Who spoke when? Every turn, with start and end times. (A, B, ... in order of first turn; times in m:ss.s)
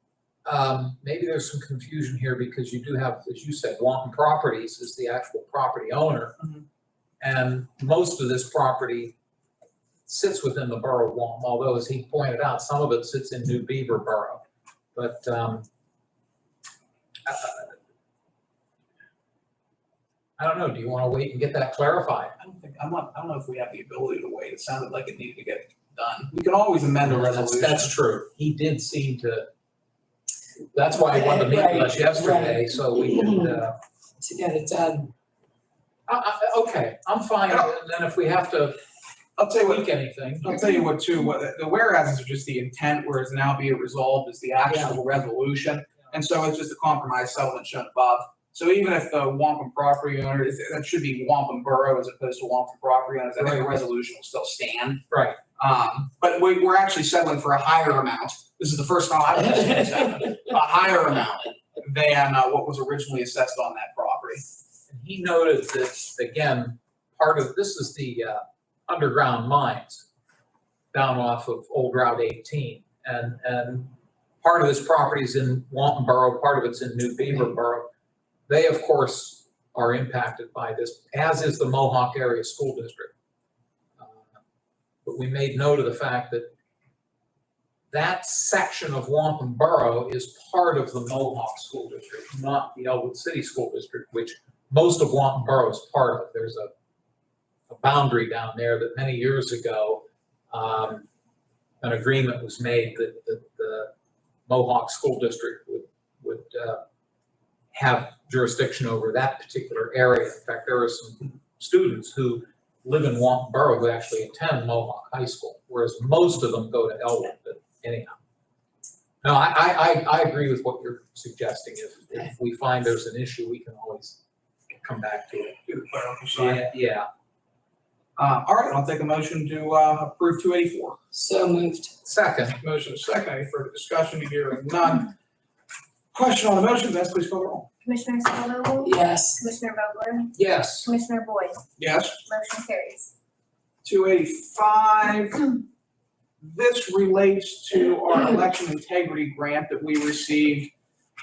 0:00.4-0:06.4 A
0:07.2-0:09.2 A
0:10.1-0:14.4 A
0:15.0-0:15.7 A
0:17.3-0:17.7 A
0:20.4-0:22.4 A
0:22.4-0:27.9 B
0:27.0-0:29.5 A
0:30.7-0:33.8 A
0:31.1-0:33.6 C
0:34.2-0:35.1 C
0:36.1-0:38.8 A
0:39.4-0:39.9 B
0:39.6-0:40.6 A
0:40.4-0:55.0 B
0:44.7-0:45.0 A
0:55.1-0:55.4 A
0:55.6-1:04.4 B
1:04.9-1:10.1 A
1:10.9-1:17.9 A
1:18.5-1:23.1 A
1:24.0-1:24.2 A
1:25.0-1:26.5 A
1:27.9-1:36.7 A
1:37.7-1:41.1 A
1:41.8-1:43.9 A
1:44.5-1:46.8 A
1:47.7-1:58.2 A
1:59.2-2:04.2 A
2:04.8-2:05.6 A
2:05.7-2:06.7 B
2:06.4-2:07.1 A
2:08.2-2:11.0 B
2:11.1-2:11.9 C
2:12.0-2:12.6 A
2:12.6-2:15.1 B
2:16.1-2:17.7 B
2:17.8-2:21.6 D
2:18.8-2:19.4 C
2:20.4-2:20.9 A
2:21.8-2:22.2 B
2:22.3-2:23.1 D
2:23.8-2:25.6 B
2:26.4-2:30.7 B